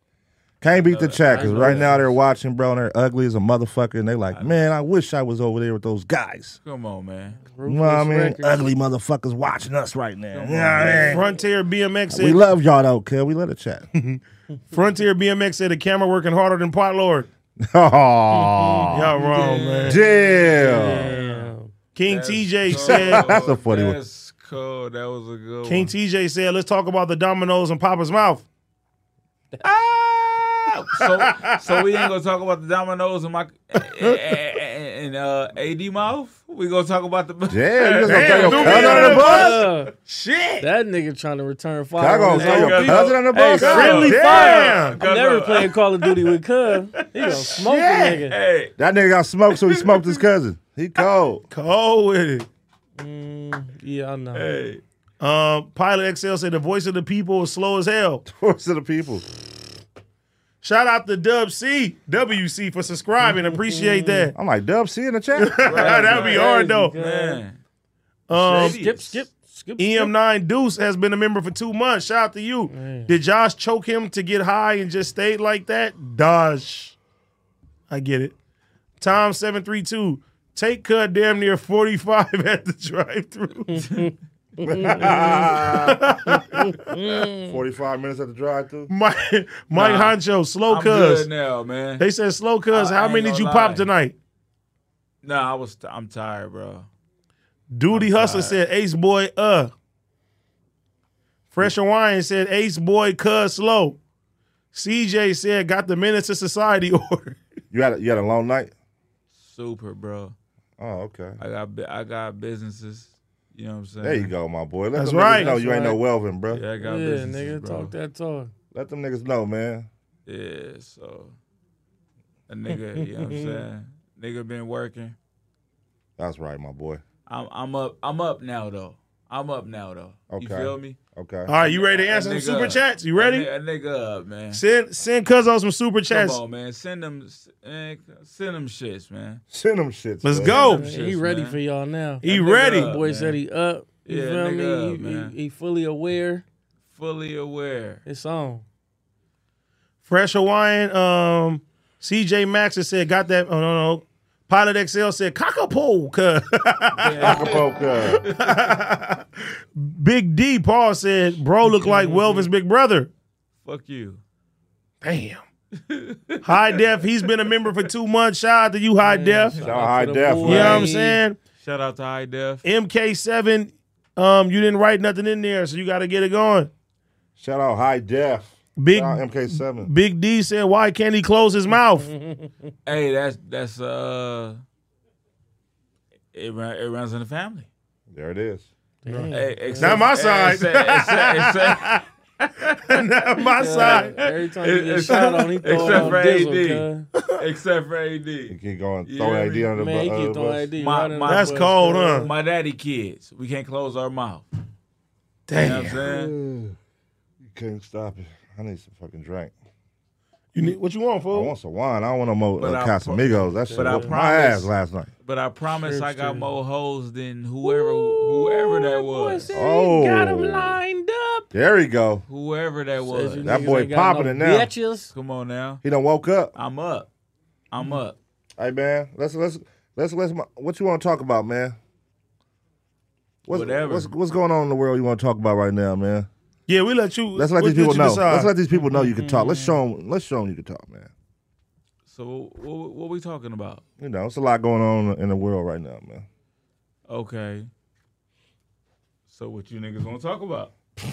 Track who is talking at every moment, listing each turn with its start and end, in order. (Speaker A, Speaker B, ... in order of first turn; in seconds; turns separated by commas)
Speaker A: 0.6-6.6, Speaker B: 0.6-2.0, Speaker C: 1.3-2.1, Speaker B: 4.3-4.6, Speaker B: 6.6-7.4, Speaker C: 7.4-8.7, Speaker A: 7.7-11.2, Speaker B: 10.3-11.3, Speaker D: 11.0-12.4, Speaker A: 12.1-13.9, Speaker D: 13.9-17.3, Speaker A: 17.6-19.1, Speaker C: 18.3-21.7, Speaker D: 18.9-20.0, Speaker B: 19.2-20.1, Speaker A: 19.8-21.1, Speaker B: 20.8-21.5, Speaker D: 21.9-23.3, Speaker B: 22.1-25.9, Speaker A: 22.7-24.0, Speaker D: 25.6-28.4, Speaker B: 29.6-39.6, Speaker D: 31.0-31.8, Speaker A: 37.5-39.6, Speaker D: 38.0-40.7, Speaker C: 38.5-39.9, Speaker C: 40.6-48.4, Speaker A: 42.0-44.1, Speaker B: 42.3-46.3, Speaker D: 43.6-45.0, Speaker B: 47.0-47.5, Speaker D: 47.2-48.3, Speaker B: 48.3-48.7, Speaker A: 48.8-51.5, Speaker B: 49.5-50.2, Speaker D: 51.5-52.5, Speaker C: 53.0-54.5, Speaker B: 54.3-54.8, Speaker D: 55.2-58.2, Speaker A: 58.2-59.2, Speaker D: 60.6-64.3, Speaker C: 63.2-64.3, Speaker A: 64.3-65.7, Speaker D: 65.3-66.9, Speaker B: 65.6-67.6, Speaker C: 65.9-67.4, Speaker D: 68.3-68.8, Speaker B: 68.3-69.2, Speaker C: 68.6-70.1, Speaker D: 69.8-77.0, Speaker C: 72.7-73.1, Speaker D: 77.9-78.4, Speaker D: 79.0-83.9, Speaker C: 83.7-85.5, Speaker B: 83.8-84.1, Speaker A: 84.6-86.2, Speaker D: 85.0-86.8, Speaker C: 86.3-87.6, Speaker A: 87.2-88.9, Speaker D: 88.9-91.3, Speaker B: 89.7-92.0, Speaker D: 92.0-94.1, Speaker B: 92.7-93.9, Speaker B: 95.2-96.9, Speaker D: 97.7-99.7, Speaker B: 97.9-98.6, Speaker D: 101.5-104.0, Speaker D: 104.7-107.4, Speaker A: 107.7-108.7, Speaker B: 109.3-110.3, Speaker A: 110.8-111.4, Speaker B: 111.4-114.3, Speaker A: 114.0-116.6, Speaker D: 114.9-115.6, Speaker C: 115.3-116.0, Speaker B: 116.5-117.9, Speaker C: 116.8-118.5, Speaker A: 118.7-119.9, Speaker B: 120.2-121.3, Speaker B: 122.5-125.2, Speaker C: 122.9-123.6, Speaker A: 126.2-127.0, Speaker B: 127.3-131.0, Speaker A: 130.3-131.5, Speaker D: 131.4-133.5, Speaker B: 131.6-134.6, Speaker D: 134.5-136.4, Speaker B: 136.1-139.4, Speaker A: 139.5-140.6, Speaker D: 140.2-140.9, Speaker C: 140.4-146.4, Speaker B: 140.4-141.6, Speaker D: 142.2-142.9, Speaker B: 142.2-143.4, Speaker B: 144.1-145.3, Speaker B: 146.9-148.0, Speaker C: 148.1-148.6, Speaker D: 150.1-157.6, Speaker B: 157.0-158.7, Speaker A: 157.2-158.2, Speaker D: 158.2-163.1, Speaker B: 161.6-162.5, Speaker C: 161.8-162.4, Speaker B: 163.6-164.2, Speaker D: 165.0-165.4, Speaker B: 165.7-166.8, Speaker D: 166.4-169.6, Speaker C: 169.0-171.2, Speaker A: 169.6-170.9, Speaker D: 170.4-171.4, Speaker B: 171.6-172.6, Speaker D: 172.6-176.7, Speaker A: 177.4-179.9, Speaker D: 178.8-182.1, Speaker C: 182.0-182.5, Speaker B: 182.8-184.6, Speaker B: 186.3-187.7, Speaker A: 188.1-188.7, Speaker C: 189.0-190.1, Speaker D: 189.1-192.0, Speaker B: 189.3-193.0, Speaker D: 192.8-194.1, Speaker C: 193.6-197.1, Speaker B: 193.6-199.7, Speaker D: 195.7-196.1, Speaker A: 198.5-200.7, Speaker C: 199.8-202.3, Speaker B: 200.8-204.4, Speaker D: 201.2-202.3, Speaker D: 205.5-206.0, Speaker B: 205.6-206.3, Speaker A: 205.9-206.8, Speaker A: 207.4-209.5, Speaker D: 210.5-211.5, Speaker A: 211.3-215.1, Speaker B: 212.6-214.7, Speaker C: 213.5-214.1, Speaker B: 215.2-219.5, Speaker C: 215.8-216.5, Speaker C: 217.6-221.5, Speaker A: 219.5-220.8, Speaker A: 221.5-222.2, Speaker B: 222.3-223.6, Speaker C: 223.0-225.1, Speaker A: 223.4-224.7, Speaker B: 225.1-225.8, Speaker A: 225.8-226.5, Speaker B: 226.6-227.1, Speaker B: 227.7-228.2, Speaker A: 228.6-231.8, Speaker A: 233.4-236.3, Speaker B: 233.5-234.1, Speaker D: 236.7-238.5, Speaker A: 237.3-241.1, Speaker C: 238.7-239.8, Speaker B: 242.1-243.8, Speaker A: 244.0-246.2, Speaker B: 247.1-247.7, Speaker B: 249.3-250.7